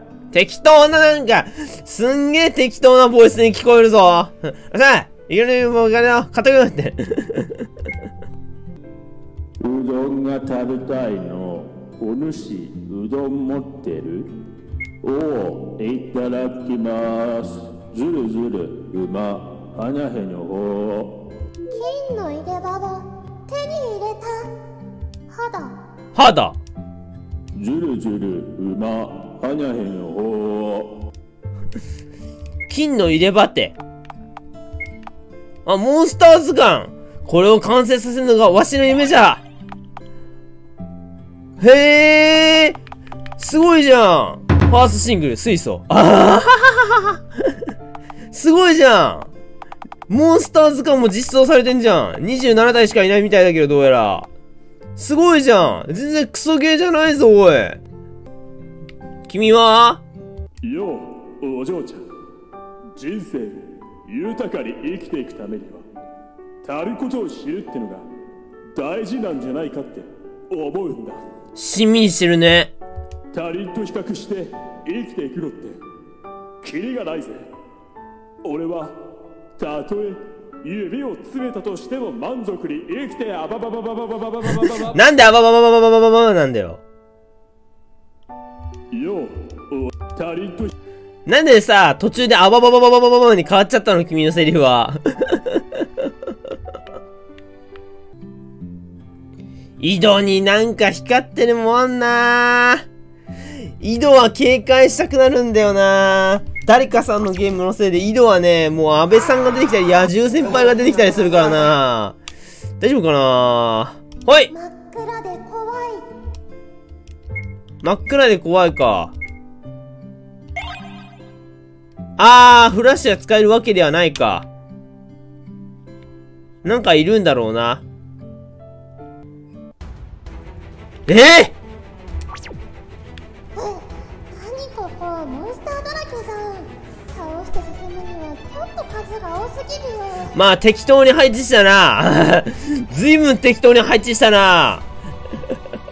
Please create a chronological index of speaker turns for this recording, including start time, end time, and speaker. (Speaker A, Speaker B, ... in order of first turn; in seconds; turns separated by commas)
Speaker A: 0.3-7.5, Speaker B: 9.6-14.3, Speaker B: 15.0-21.2, Speaker C: 21.7-24.5, Speaker C: 25.3-25.8, Speaker A: 26.1-26.6, Speaker B: 27.5-31.0, Speaker A: 32.7-33.8, Speaker A: 35.6-39.4, Speaker A: 41.6-42.8, Speaker A: 43.4-47.2, Speaker A: 48.3-49.3, Speaker A: 50.1-54.3, Speaker A: 55.0-57.8, Speaker A: 59.3-60.0, Speaker B: 60.6-62.0, Speaker B: 62.9-65.8, Speaker B: 66.6-68.0, Speaker B: 68.7-71.2, Speaker A: 71.5-72.7, Speaker B: 73.3-75.8, Speaker B: 76.6-77.5, Speaker B: 78.4-79.0, Speaker B: 79.5-85.0, Speaker A: 84.8-86.8, Speaker B: 88.9-90.7, Speaker A: 91.2-95.8, Speaker A: 99.8-102.8, Speaker A: 103.8-112.2, Speaker A: 112.8-114.5, Speaker C: 114.5-116.0, Speaker A: 117.8-119.1, Speaker A: 122.2-124.5, Speaker A: 126.6-127.8, Speaker A: 131.1-131.5, Speaker C: 133.5-140.4, Speaker A: 140.3-144.8